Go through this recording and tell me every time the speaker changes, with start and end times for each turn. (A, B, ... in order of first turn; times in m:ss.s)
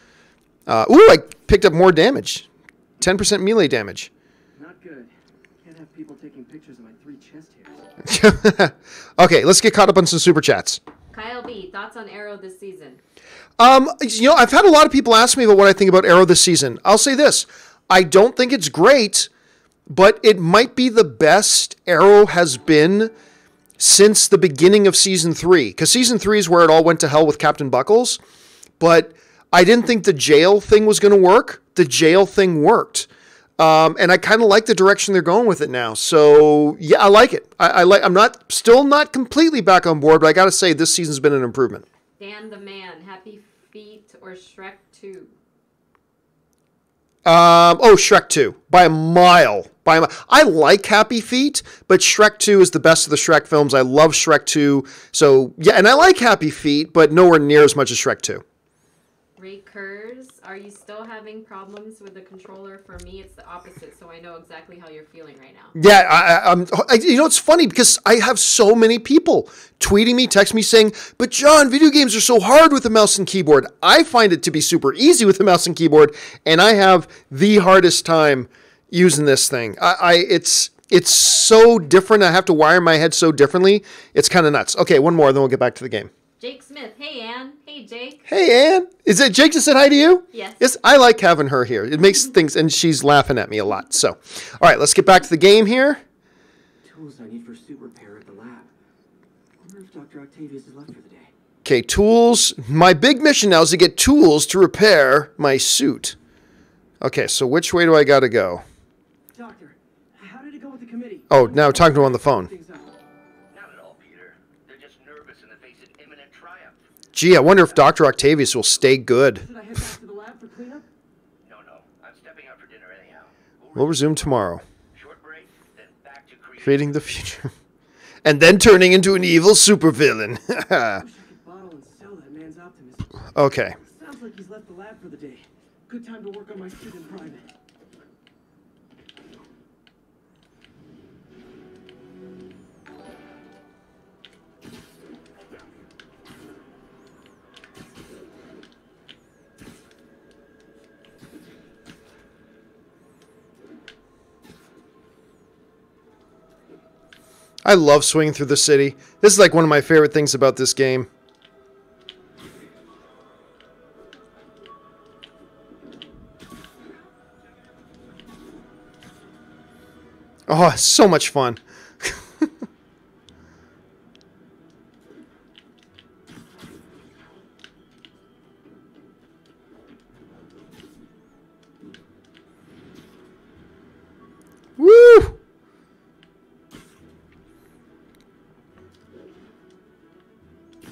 0:00.7-0:02.4 A
0:03.0-0:04.1 A
0:04.6-0:07.8 B
0:08.0-0:10.8 A
0:11.1-0:13.0 C
0:13.6-0:19.3 A
0:19.9-0:23.1 A
0:23.8-0:28.2 A
0:28.8-0:33.1 A
0:33.6-0:41.8 A
0:42.2-0:45.3 C
0:47.2-0:58.4 A
0:59.4-1:05.8 C
1:05.8-1:26.1 A
1:26.4-1:28.3 C
1:28.3-1:36.0 A
1:30.3-1:30.7 C
1:36.8-1:38.7 B
1:39.6-1:41.3 B
1:41.6-1:46.2 A
1:47.0-1:48.6 A
1:49.3-1:52.9 B
1:51.3-1:52.5 A
1:53.5-1:56.8 D
1:57.1-1:59.4 A
1:59.4-2:00.8 B
2:01.4-2:07.2 D
2:03.8-2:04.6 A
2:06.6-2:07.5 A
2:08.2-2:11.0 A
2:11.0-2:13.3 B
2:13.4-2:13.8 A
2:13.8-2:17.5 B
2:37.6-2:41.1 A
2:50.5-2:52.5 A
3:04.8-3:05.4 A